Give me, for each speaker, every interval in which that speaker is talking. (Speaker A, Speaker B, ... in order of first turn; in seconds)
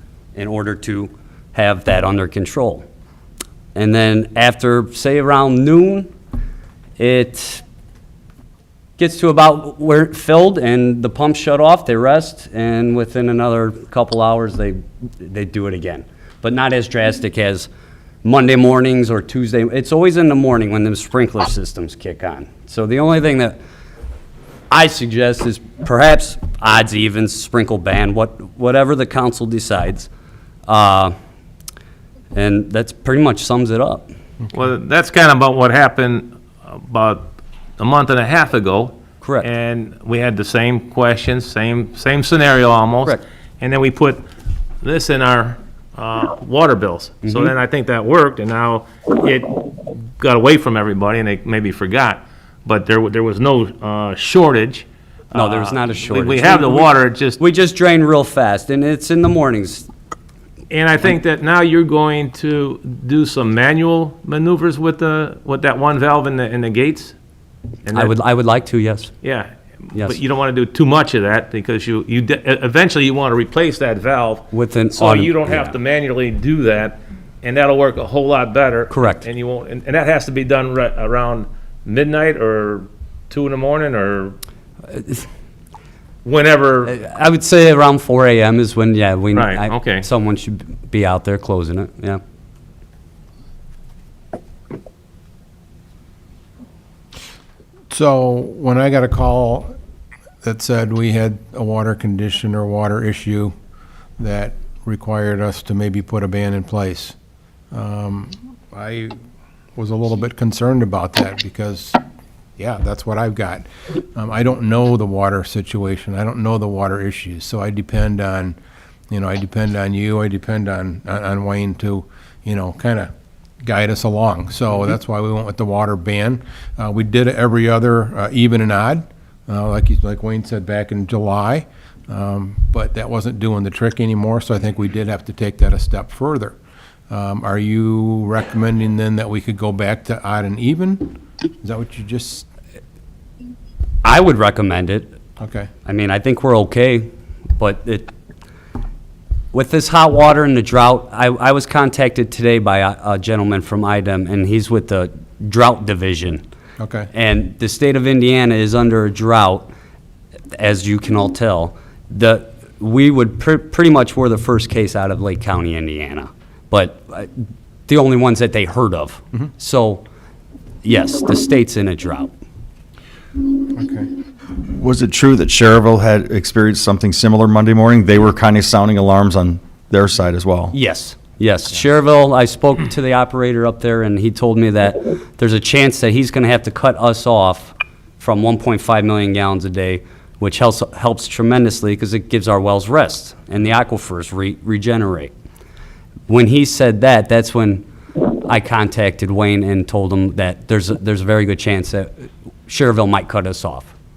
Speaker A: 0.3-2.9, 3.7-6.1, 7.0-7.6, 9.0-17.7, 18.2-23.6, 24.7-30.1, 30.7-31.1, 32.3-34.1, 47.2-47.5, 55.3-59.9, 67.9-69.1, 74.5-75.8, 78.9-79.3, 84.9-85.2, 86.9-92.2, 144.0-145.1, 145.9-148.1, 149.5-156.4, 157.1-159.7, 160.6-167.3, 167.9-170.0, 170.8-172.3, 180.7-195.3, 196.3-203.9
Speaker B: 34.5-44.2, 44.8-57.4, 60.7-67.2, 67.9-68.2, 69.2-84.4, 86.2-87.0, 89.3-90.1
Speaker C: 97.9-99.8, 100.4-103.5, 104.2-107.2, 107.7-109.2, 109.8-112.0, 112.6-118.6, 119.1-123.1, 123.6-136.6, 137.1-142.5, 145.4-145.7, 156.8-157.1, 173.7-174.1
Speaker D: 174.6-180.8